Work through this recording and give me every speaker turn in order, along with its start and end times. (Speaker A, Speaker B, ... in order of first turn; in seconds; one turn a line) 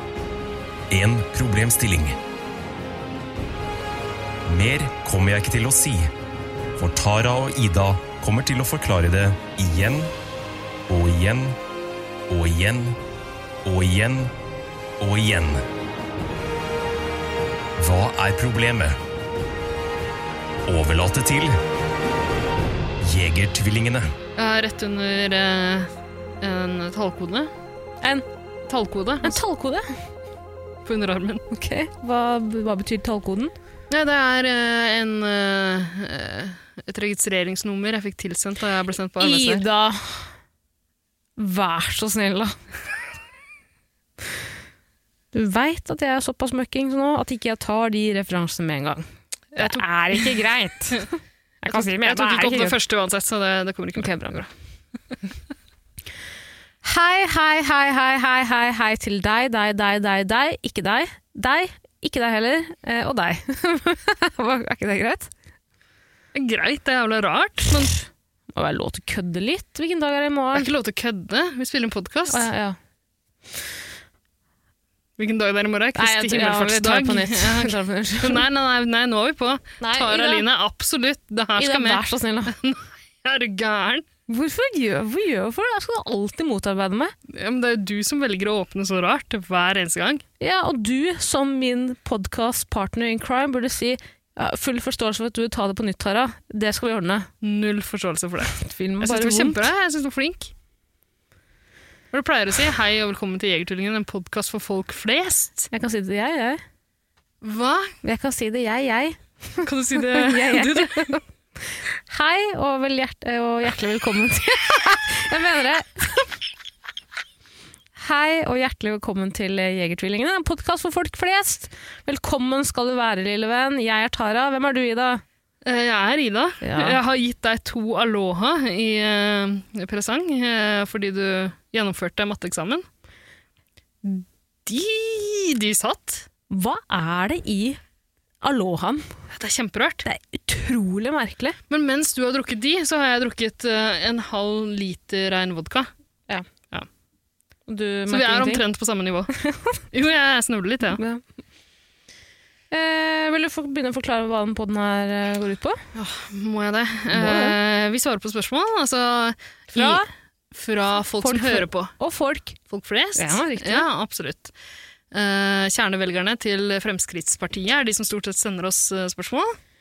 Speaker A: 0.9-2.2
Speaker A: 4.5-6.1
Speaker A: 6.8-10.1
Speaker A: 10.9-11.6
Speaker A: 12.3-13.0
Speaker A: 13.6-14.3
Speaker A: 15.0-15.7
Speaker A: 17.8-19.0
Speaker A: 20.7-21.6
Speaker A: 23.0-24.1
Speaker B: 24.4-25.9
Speaker B: 26.4-27.5
Speaker B: 28.7-29.4
Speaker C: 29.2-29.9
Speaker B: 30.9-31.4
Speaker C: 31.5-33.5
Speaker B: 33.9-39.6
Speaker C: 39.2-40.3
Speaker C: 41.4-42.5
Speaker C: 45.3-49.0
Speaker B: 49.5-50.4
Speaker C: 49.6-52.8
Speaker B: 51.7-54.5
Speaker C: 54.0-54.5
Speaker C: 56.8-65.3
Speaker B: 66.3-68.0
Speaker C: 68.6-70.7
Speaker B: 70.5-72.5
Speaker C: 72.3-72.8
Speaker B: 75.2-84.0
Speaker C: 76.0-78.5
Speaker C: 79.8-80.5
Speaker C: 81.6-82.5
Speaker C: 84.3-87.2
Speaker B: 87.3-90.2
Speaker C: 90.4-97.3
Speaker B: 97.4-100.5
Speaker C: 98.6-99.7
Speaker B: 102.1-105.7
Speaker C: 105.7-106.6
Speaker B: 107.4-108.0
Speaker C: 108.0-111.2
Speaker B: 109.7-111.2
Speaker C: 112.1-116.4
Speaker C: 118.0-125.2
Speaker B: 125.6-132.8
Speaker C: 126.6-127.0
Speaker B: 134.1-136.3
Speaker C: 136.5-137.8
Speaker C: 138.4-139.1
Speaker B: 139.3-140.1
Speaker C: 140.1-141.6
Speaker B: 141.7-145.9
Speaker C: 147.7-148.6
Speaker B: 148.1-149.3
Speaker C: 149.5-149.7
Speaker B: 149.9-151.0
Speaker C: 150.9-151.2
Speaker C: 152.7-155.8
Speaker B: 155.9-161.9
Speaker C: 157.1-157.6
Speaker C: 159.7-160.1
Speaker C: 161.2-162.6
Speaker B: 162.7-164.5
Speaker C: 163.2-163.9
Speaker B: 165.1-169.6